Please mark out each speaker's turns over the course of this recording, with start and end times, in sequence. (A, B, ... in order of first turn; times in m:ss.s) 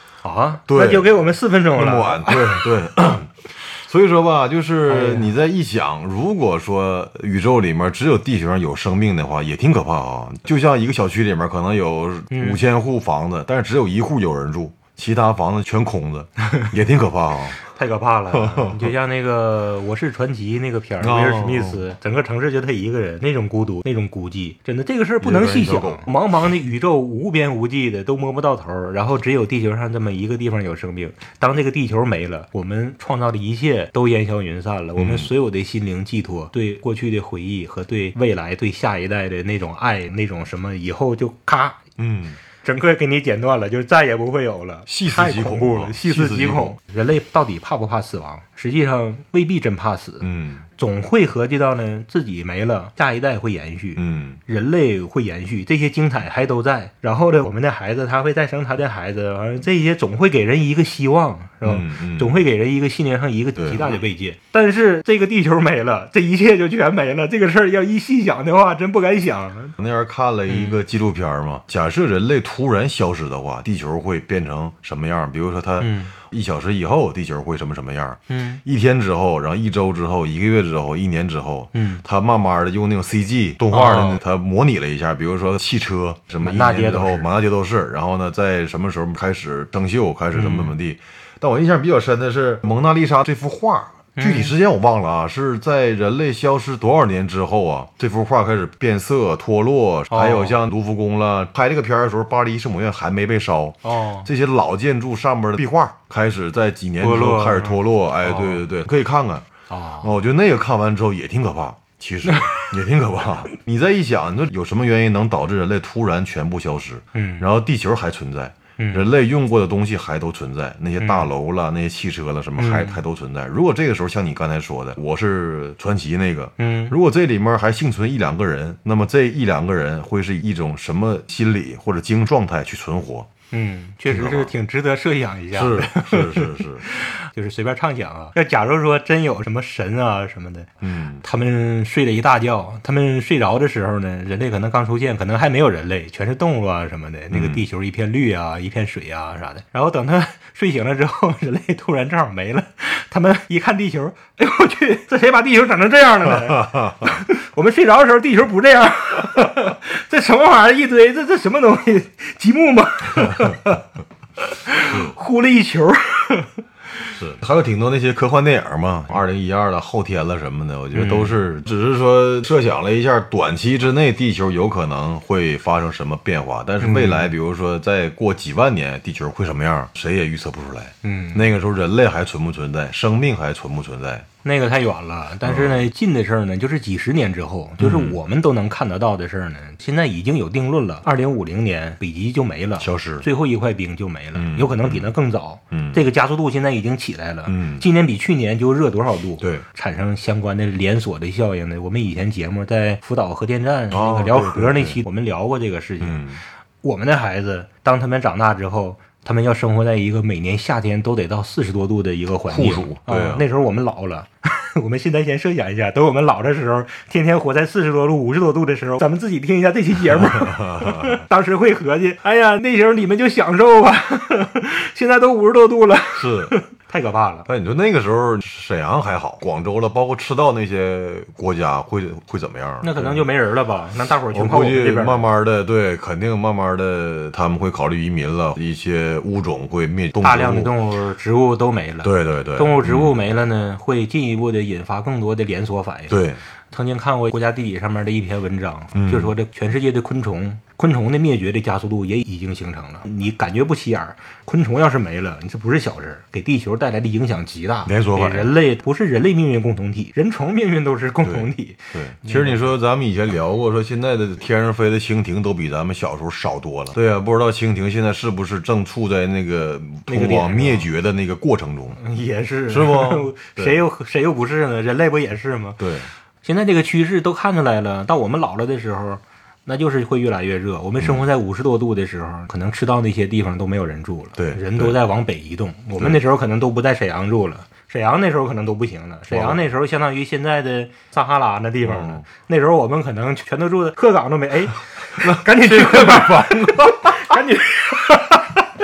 0:00.2-0:02.7 A
0:00.7-0:01.1 B
0:01.8-0:17.7 B
0:04.9-0:05.3 A
0:12.3-0:12.6 A
0:17.7-0:41.8 A
0:18.3-0:18.9 B
0:21.0-0:21.8 B
0:25.2-0:26.1 B
0:35.0-0:35.3 B
0:42.0-0:42.4 B
0:42.6-1:09.8 A
0:44.9-0:46.8 B
0:50.2-0:50.6 B
0:54.0-0:54.4 B
1:01.6-1:02.4 B
1:03.6-1:04.0 B
1:09.8-1:49.5 B
1:10.5-1:10.8 A
1:15.8-1:16.2 A
1:18.3-1:18.6 A
1:21.7-1:22.0 A
1:23.7-1:24.2 A
1:26.4-1:27.3 A
1:30.3-1:30.7 A
1:34.2-1:34.5 A
1:40.1-1:40.6 A
1:43.8-1:44.3 A
1:47.0-1:48.6 A
1:49.7-1:50.1 A
1:50.0-2:13.3 B
1:52.3-1:52.6 A
1:57.1-1:57.5 A
1:58.8-1:59.1 A
2:01.0-2:01.3 A
2:02.6-2:03.0 A
2:06.6-2:07.0 A
2:13.5-2:43.8 A
2:14.1-2:14.5 B
2:15.5-2:16.8 B
2:20.8-2:21.2 B
2:27.3-2:27.6 B
2:44.4-2:46.6 A
2:47.2-3:04.3 B
2:50.9-2:51.4 A
2:56.8-2:57.3 A
3:01.0-3:01.5 A
3:04.4-3:26.2 A
3:05.4-3:05.9 B
3:07.8-3:08.2 B
3:12.8-3:13.3 B
3:14.4-3:15.1 B
3:15.7-3:16.0 B
3:17.5-3:17.8 B
3:19.4-3:19.6 B
3:23.9-3:25.0 B
3:26.0-3:26.4 B
3:26.8-3:47.5 A
3:32.5-3:33.4 B
3:40.1-3:41.2 B
3:46.2-3:46.6 B
3:47.5-3:53.3 B
3:52.8-3:55.3 A
3:54.3-4:00.7 B
4:00.2-4:06.2 A
4:02.0-4:03.2 B
4:06.1-4:06.4 B
4:06.7-4:22.7 A
4:09.0-4:09.3 B
4:17.8-4:18.5 B
4:21.2-4:32.0 B
4:30.1-4:30.9 A
4:32.0-4:35.8 A
4:32.7-4:33.8 B
4:35.8-4:36.1 B
4:36.4-4:58.7 A
4:41.0-4:41.2 B
4:44.4-4:45.0 B
4:49.3-4:49.6 B
4:51.8-4:52.2 B
4:55.2-4:57.4 B